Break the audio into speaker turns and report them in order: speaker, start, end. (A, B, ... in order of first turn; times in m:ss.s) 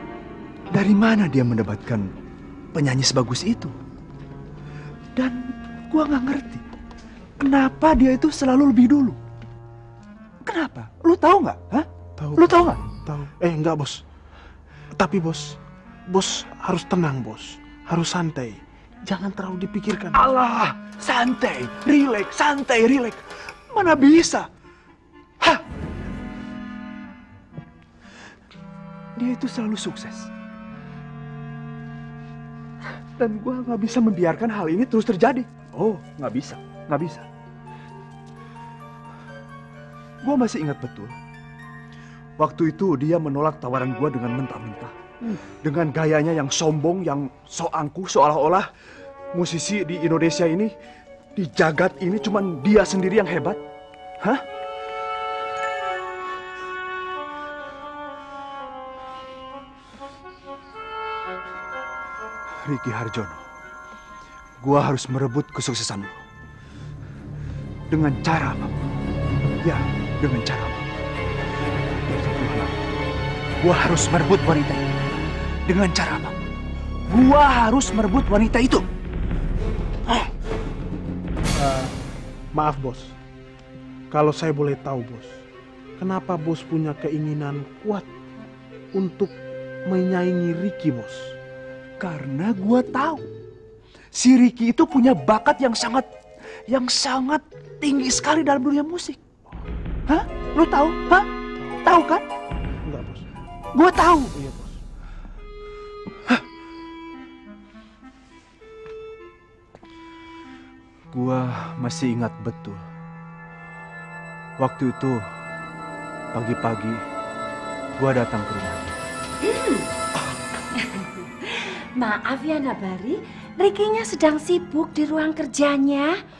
0:00.7-0:02.1 A
0:02.7-0:03.7 A
0:05.2-0:06.6 A
0:07.4-0:09.2 A
0:10.4-0:12.8 A
0:12.2-0:14.0 B
0:15.0-0:15.6 B
0:16.1-0:20.2 B
0:20.1-0:24.5 A
0:29.2-0:30.3 A
0:33.2-0:37.2 A
0:40.2-0:41.1 A
0:42.4-0:44.9 A
0:45.6-0:48.6 A
0:49.3-0:50.7 A
0:51.4-0:53.6 A
1:02.6-1:03.4 A
1:04.6-1:06.2 A
1:07.9-1:08.7 A
1:09.6-1:10.9 A
1:12.0-1:12.8 A
1:13.6-1:14.9 A
1:15.7-1:16.5 A
1:17.1-1:18.9 A
1:21.6-1:21.9 B
1:22.5-1:23.1 B
1:24.1-1:25.4 B
1:26.0-1:28.1 B
1:28.9-1:29.3 B
1:29.9-1:31.3 B
1:32.0-1:33.2 A
1:34.1-1:36.1 A
1:36.7-1:39.2 A
1:40.1-1:41.3 A
1:41.8-1:42.2 A
1:42.8-1:43.2 B
1:43.7-1:44.3 A
1:44.3-1:44.8 B
1:51.1-1:52.8 A
1:54.6-1:55.2 A
1:56.3-1:57.0 A
1:58.0-1:59.0 A
1:59.4-1:59.9 C
2:00.8-2:06.2 C